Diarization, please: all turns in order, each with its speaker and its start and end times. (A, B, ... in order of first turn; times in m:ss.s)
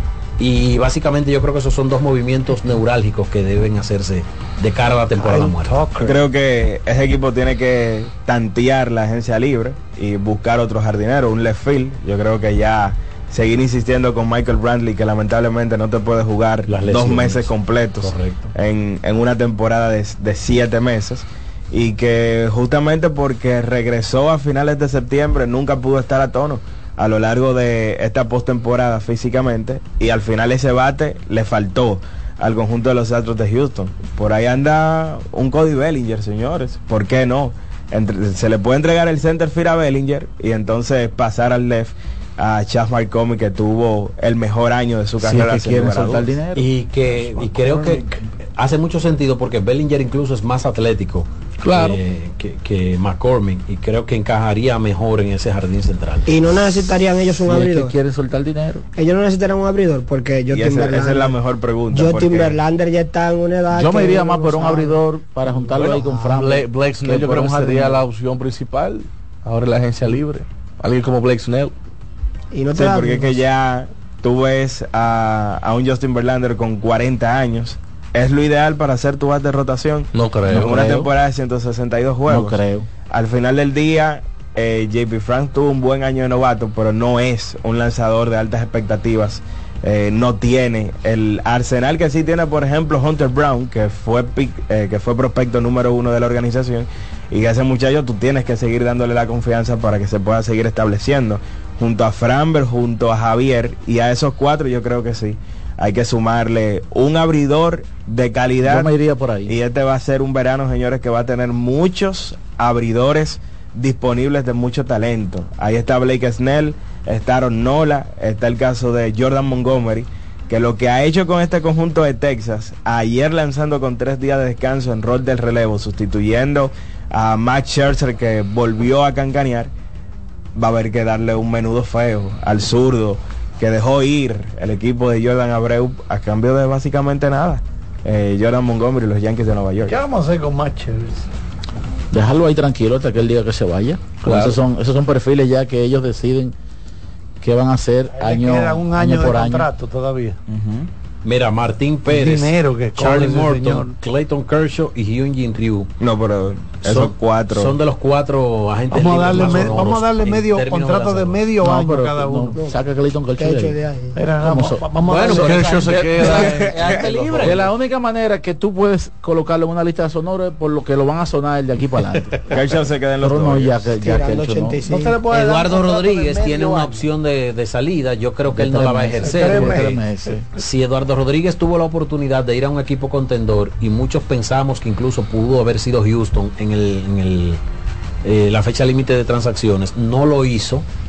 0:00.4-0:05.8 A
0:05.1-0:06.2 B
0:06.0-0:46.3 C
0:16.7-0:18.5 A
0:45.2-0:48.1 D
0:46.5-0:56.3 A
0:51.7-0:52.0 D
0:56.3-0:57.9 E
0:57.3-0:58.8 D
0:59.0-1:01.4 E
1:00.5-1:02.6 C
1:01.9-1:05.0 E
1:03.7-1:08.0 D
1:05.7-1:11.7 F
1:12.5-1:13.4 E
1:12.7-1:48.9 C
1:20.1-1:20.8 F
1:20.5-1:21.1 D
1:22.3-1:22.9 D
1:48.6-1:49.5 D
1:49.4-2:09.7 C
2:10.6-2:20.0 C
2:19.8-2:21.3 B
2:22.1-2:26.5 D
2:24.2-2:24.6 F
2:27.4-2:29.7 D
2:28.1-2:30.4 B
2:31.2-2:35.9 A
2:32.1-2:33.9 B
2:36.0-2:37.7 C
2:36.8-2:41.4 A
2:38.9-2:42.6 B
2:41.6-2:43.8 D
2:42.5-2:42.8 E
2:43.4-2:44.2 E
2:44.2-2:46.0 B
2:44.4-2:52.3 D
2:45.1-2:47.7 A
2:45.3-2:46.6 F
2:46.3-2:46.9 C
2:47.0-2:47.5 B
2:52.5-2:53.8 C
2:53.2-2:54.8 D
2:54.0-2:55.2 E
2:54.9-2:57.0 B
2:55.3-2:59.9 A
2:58.5-3:00.4 D
2:59.2-3:00.3 B
3:00.6-3:07.6 A
3:08.2-3:10.8 A